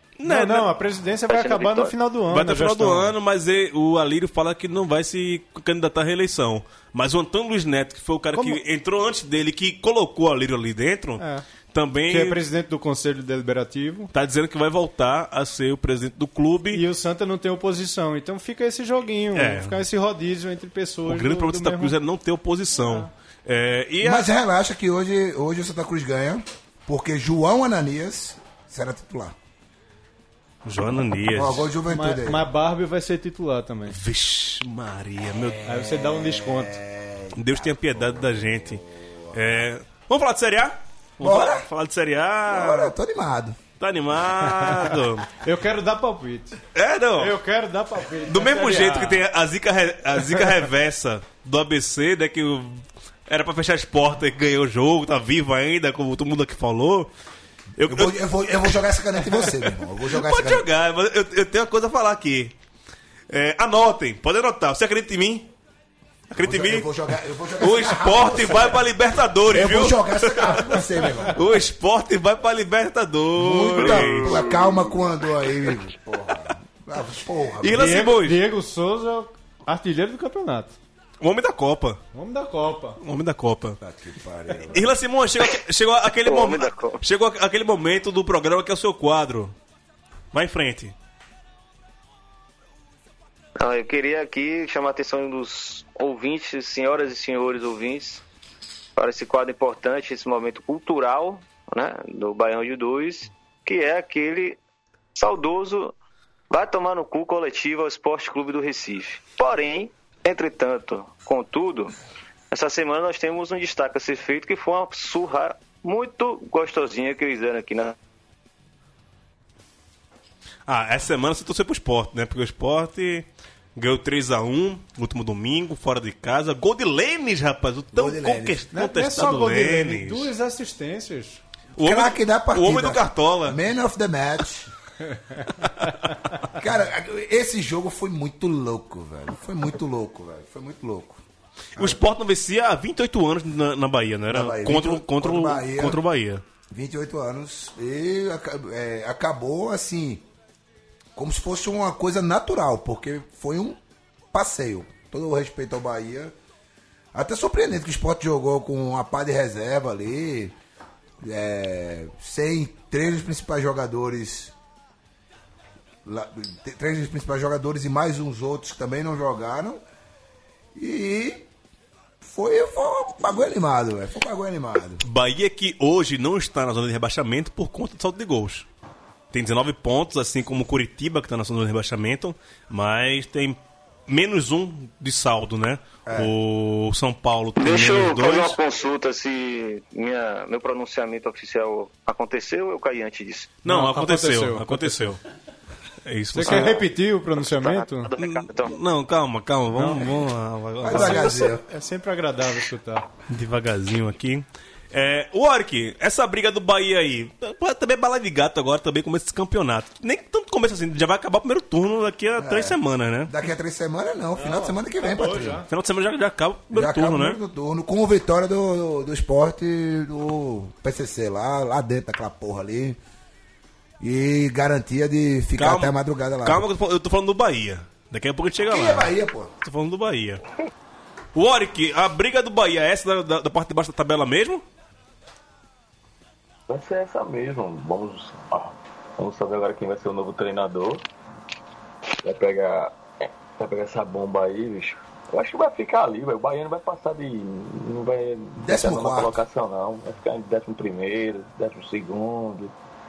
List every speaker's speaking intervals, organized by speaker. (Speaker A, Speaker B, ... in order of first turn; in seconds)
Speaker A: 0.2-0.7, 2.3-12.4, 14.1-16.8, 19.3-19.8, 21.0-24.3, 30.6-31.7, 33.9-35.7, 37.3-42.9, 43.8-45.3, 46.7-47.4, 48.3-57.1, 57.8-62.5, 63.3-65.5, 66.3-66.9, 67.6-74.6, 77.6-78.4, 81.2-82.0, 83.0-83.8, 84.7-89.5, 90.3-90.9, 120.7-130.3, 131.8-133.6, 141.8-146.4, 175.0-178.7, 179.3-183.6, 184.1-188.6, 193.6-195.2, 196.0-196.8, 198.2-201.5, 203.3-213.3, 215.7-217.4, 225.6-230.4, 231.3-234.6
Speaker B: 0.2-3.1, 8.3-8.6, 11.2-11.4, 12.1-14.1, 16.7-21.9, 22.8-23.1, 31.8-34.0, 35.6-36.8, 45.4-46.6, 47.2-49.2, 77.7-80.7, 82.1-83.0, 128.7-131.4, 193.6-195.0, 196.3-198.1, 199.7-200.3, 200.8-203.1, 214.4-215.7
Speaker C: 1.3-1.9, 73.8-74.4, 86.2-87.0, 93.6-98.2, 99.0-104.6, 105.1-105.9, 106.5-111.9, 112.5-117.9, 187.6-193.6, 197.3-198.8
Speaker D: 24.0-29.4, 31.3-32.4, 35.6-39.6, 41.2-41.6, 42.5-43.6, 57.8-60.6, 66.4-68.9, 69.5-71.4, 73.3-77.9, 83.8-84.9, 127.9-128.6, 131.8-134.7, 136.5-141.2, 144.3-146.0, 146.7-150.2, 151.2-153.8, 154.3-156.3, 157.1-160.6, 161.2-164.5, 166.0-169.8, 170.7-171.4, 172.2-175.0, 186.1-186.3, 200.8-201.7, 212.4-215.6, 216.7-223.0, 224.0-226.7, 228.7-229.5, 248.6-249.4
Speaker E: 236.7-241.0, 242.2-252.7